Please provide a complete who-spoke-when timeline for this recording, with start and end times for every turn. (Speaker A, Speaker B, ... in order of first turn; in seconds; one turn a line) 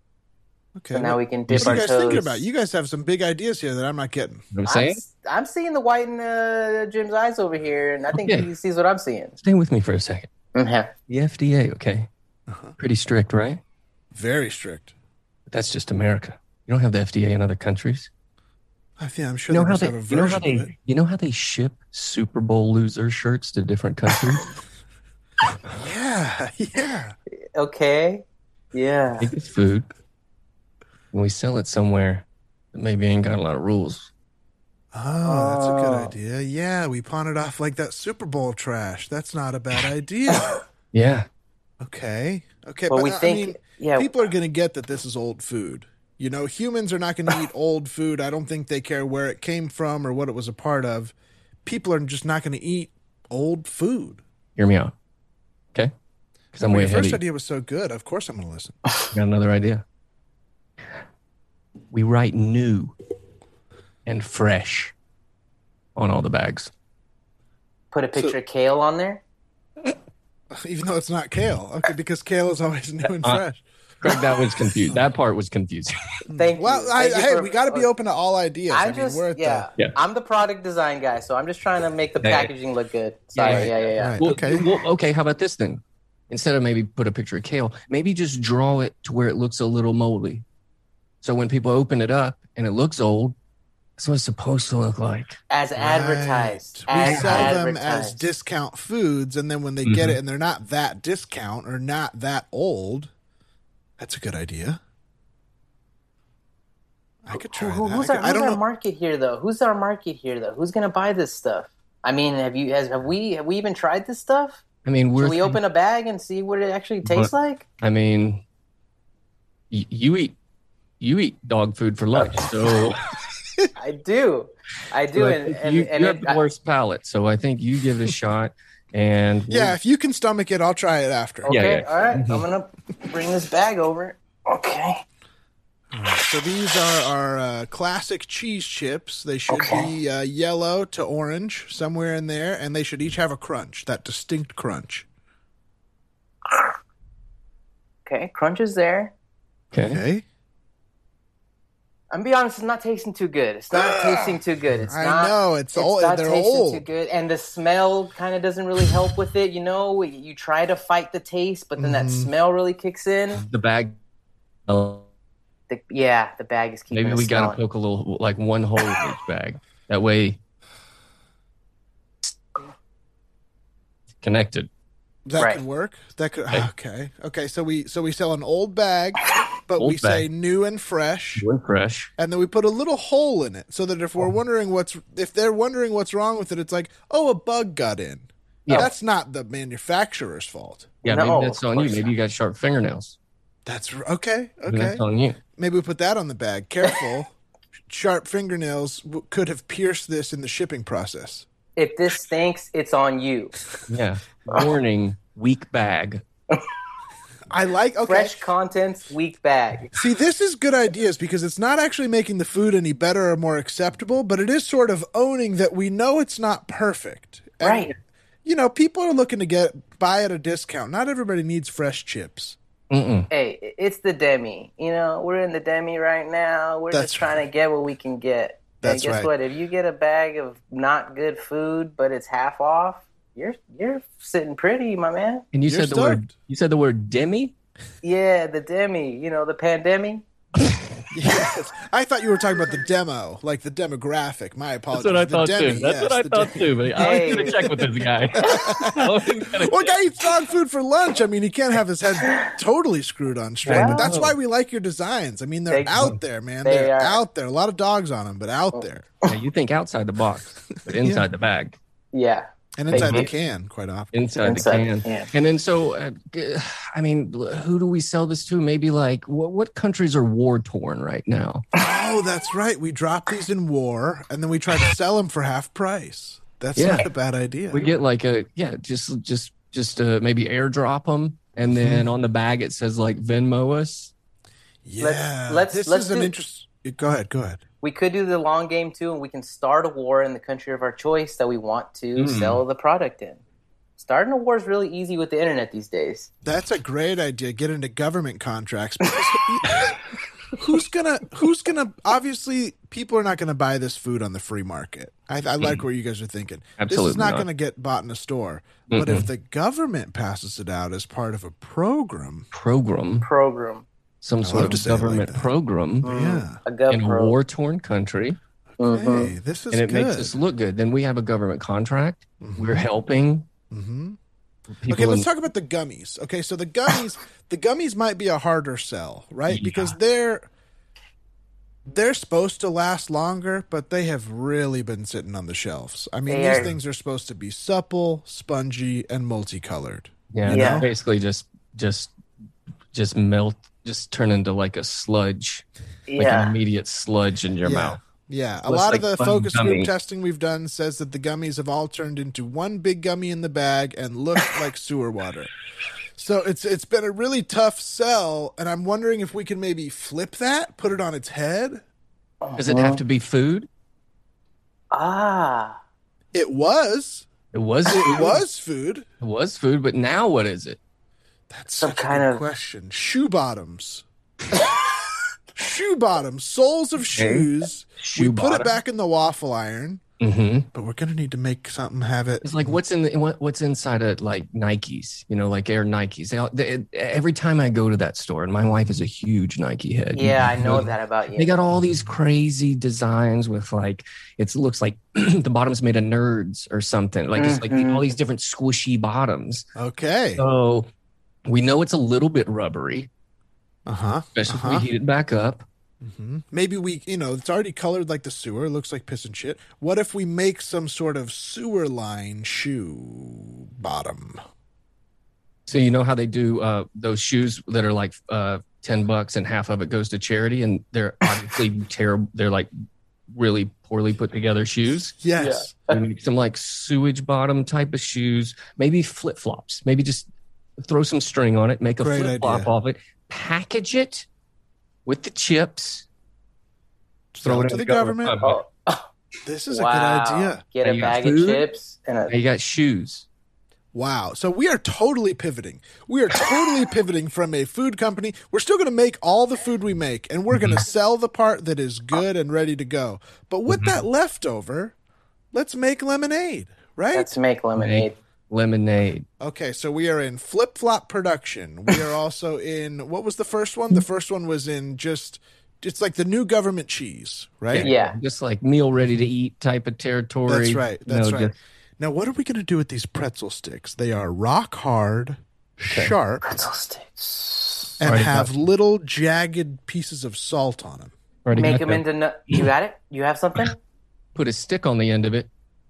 Speaker A: 0.8-4.4
Speaker B: 0.9-2.5
Speaker C: 1.5-1.8
Speaker C: 4.5-5.0
Speaker B: 4.7-9.3
Speaker C: 8.1-8.5
Speaker C: 9.4-10.3
Speaker B: 10.5-10.9
Speaker C: 11.1-12.1
Speaker A: 12.5-12.7
Speaker C: 12.8-13.6
Speaker A: 14.1-14.9
Speaker C: 15.5-18.1
Speaker A: 19.0-20.7
Speaker C: 19.5-24.4
Speaker A: 25.7-27.1
Speaker B: 27.5-29.3
Speaker C: 29.2-29.9
Speaker C: 31.1-34.1
Speaker A: 34.9-40.6
Speaker B: 35.2-36.1
Speaker C: 40.9-41.3
Speaker A: 41.8-51.1
Speaker B: 42.9-44.1
Speaker A: 51.6-54.2
Speaker C: 54.6-54.9
Speaker A: 56.5-58.8
Speaker C: 56.5-57.2
Speaker C: 59.1-59.8
Speaker C: 61.9-62.9
Speaker C: 64.0-64.9
Speaker C: 66.0-66.7
Speaker B: 67.9-69.2
Speaker A: 70.5-73.6
Speaker C: 73.0-73.4
Speaker C: 74.0-76.1
Speaker A: 76.3-79.7
Speaker B: 76.3-77.9
Speaker B: 78.7-84.2
Speaker C: 82.2-82.5
Speaker C: 83.3-90.4
Speaker A: 83.5-84.7
Speaker C: 91.2-93.4
Speaker C: 94.0-95.4
Speaker B: 95.5-98.2
Speaker A: 95.8-103.1
Speaker C: 97.0-97.5
Speaker C: 99.8-100.2
Speaker A: 104.0-104.8
Speaker A: 107.2-108.6
Speaker B: 107.3-114.6
Speaker C: 114.8-115.6
Speaker B: 115.2-117.6
Speaker C: 117.0-118.4
Speaker C: 119.7-120.3
Speaker C: 121.0-123.1
Speaker B: 123.8-126.4
Speaker C: 125.1-129.8
Speaker A: 129.5-131.6
Speaker B: 131.4-135.0
Speaker C: 131.5-132.4
Speaker A: 135.9-145.1
Speaker B: 139.5-139.9
Speaker B: 148.1-149.1
Speaker C: 149.7-150.0
Speaker A: 149.8-150.2
Speaker B: 152.1-163.4
Speaker A: 153.7-156.8
Speaker A: 161.8-162.3
Speaker C: 163.3-163.9
Speaker C: 164.7-165.1
Speaker B: 165.7-167.6
Speaker C: 166.9-170.4
Speaker C: 174.2-174.7
Speaker A: 175.2-181.4
Speaker B: 175.4-175.6
Speaker C: 179.8-180.3
Speaker C: 181.4-182.1
Speaker A: 182.2-190.9
Speaker C: 191.0-193.2
Speaker B: 191.1-192.1
Speaker A: 193.7-195.0
Speaker C: 194.7-195.4
Speaker A: 195.6-197.3
Speaker A: 197.9-201.4
Speaker B: 201.8-203.5
Speaker C: 203.9-206.2
Speaker A: 207.5-208.5
Speaker B: 208.1-209.9
Speaker A: 209.9-217.9
Speaker B: 217.6-217.9
Speaker A: 218.4-222.6
Speaker C: 222.9-223.3
Speaker B: 223.3-235.4
Speaker A: 226.9-227.3
Speaker A: 228.8-229.3
Speaker C: 235.5-237.5
Speaker A: 235.7-236.3
Speaker B: 238.0-240.2
Speaker A: 241.1-247.8
Speaker C: 244.9-249.9
Speaker B: 246.9-247.7
Speaker A: 248.4-259.1
Speaker B: 252.2-252.5
Speaker C: 253.6-254.3
Speaker B: 253.7-254.1
Speaker B: 255.7-256.0
Speaker B: 256.6-257.2
Speaker B: 258.7-259.3
Speaker C: 259.3-261.8
Speaker A: 260.9-261.2
Speaker B: 262.1-263.3
Speaker A: 262.8-264.1
Speaker C: 262.9-263.3
Speaker C: 264.1-271.6
Speaker B: 264.4-265.3
Speaker A: 271.8-277.9
Speaker C: 276.7-277.1
Speaker C: 277.7-284.1
Speaker A: 281.6-282.1
Speaker A: 284.8-287.6
Speaker B: 285.0-286.3
Speaker B: 287.8-293.4
Speaker C: 292.2-292.6
Speaker B: 294.0-296.3
Speaker A: 296.4-299.9
Speaker A: 300.6-312.5
Speaker C: 306.8-307.4
Speaker C: 308.9-309.3
Speaker C: 312.5-313.3
Speaker B: 313.2-313.9
Speaker C: 314.2-316.1
Speaker A: 314.4-315.5
Speaker A: 316.0-316.6
Speaker B: 316.0-317.4
Speaker C: 316.9-318.4
Speaker B: 318.8-319.3
Speaker A: 318.8-320.3
Speaker C: 319.7-323.5
Speaker A: 322.4-322.9
Speaker A: 323.7-324.2
Speaker C: 324.8-325.3
Speaker A: 324.9-330.5
Speaker C: 329.5-329.9
Speaker A: 331.9-340.9
Speaker B: 336.3-336.7
Speaker C: 340.3-342.1
Speaker B: 340.5-340.9
Speaker C: 342.9-345.6
Speaker B: 346.1-346.5
Speaker C: 346.2-348.0
Speaker A: 347.6-355.5
Speaker C: 348.6-349.9
Speaker A: 356.2-361.8
Speaker B: 362.4-363.0
Speaker C: 362.6-363.7
Speaker B: 364.9-365.8
Speaker A: 366.3-367.3
Speaker C: 367.5-368.4
Speaker A: 367.9-369.1
Speaker C: 369.2-370.8
Speaker A: 371.5-374.0
Speaker B: 371.8-372.4
Speaker A: 375.6-380.0
Speaker C: 377.1-378.7
Speaker C: 380.2-380.7
Speaker A: 380.7-382.8
Speaker C: 382.4-399.6
Speaker B: 390.1-391.5
Speaker B: 397.4-398.1
Speaker A: 399.8-400.4
Speaker C: 400.4-400.9
Speaker C: 401.4-403.1
Speaker A: 403.9-404.9
Speaker C: 404.3-405.6
Speaker A: 406.0-414.4
Speaker C: 415.7-422.7
Speaker C: 423.3-425.2
Speaker A: 425.2-425.7
Speaker B: 425.4-426.0
Speaker C: 425.9-430.3
Speaker C: 430.8-434.2
Speaker A: 432.0-432.7
Speaker C: 435.1-436.1
Speaker A: 437.3-438.4
Speaker C: 437.4-438.6
Speaker B: 438.4-439.1
Speaker A: 439.4-440.6
Speaker B: 439.7-442.3
Speaker C: 440.8-441.7
Speaker C: 442.3-443.2
Speaker A: 443.9-454.9
Speaker C: 450.5-450.8
Speaker C: 453.7-454.0
Speaker A: 455.5-457.3
Speaker B: 457.1-458.1
Speaker C: 457.8-459.2
Speaker A: 459.4-467.9
Speaker C: 467.7-471.5
Speaker B: 467.8-468.1
Speaker A: 470.5-476.4
Speaker C: 475.9-476.1
Speaker B: 476.4-478.0
Speaker A: 478.0-481.1
Speaker C: 478.0-478.6
Speaker C: 481.4-482.6
Speaker B: 481.6-483.8
Speaker C: 484.3-485.5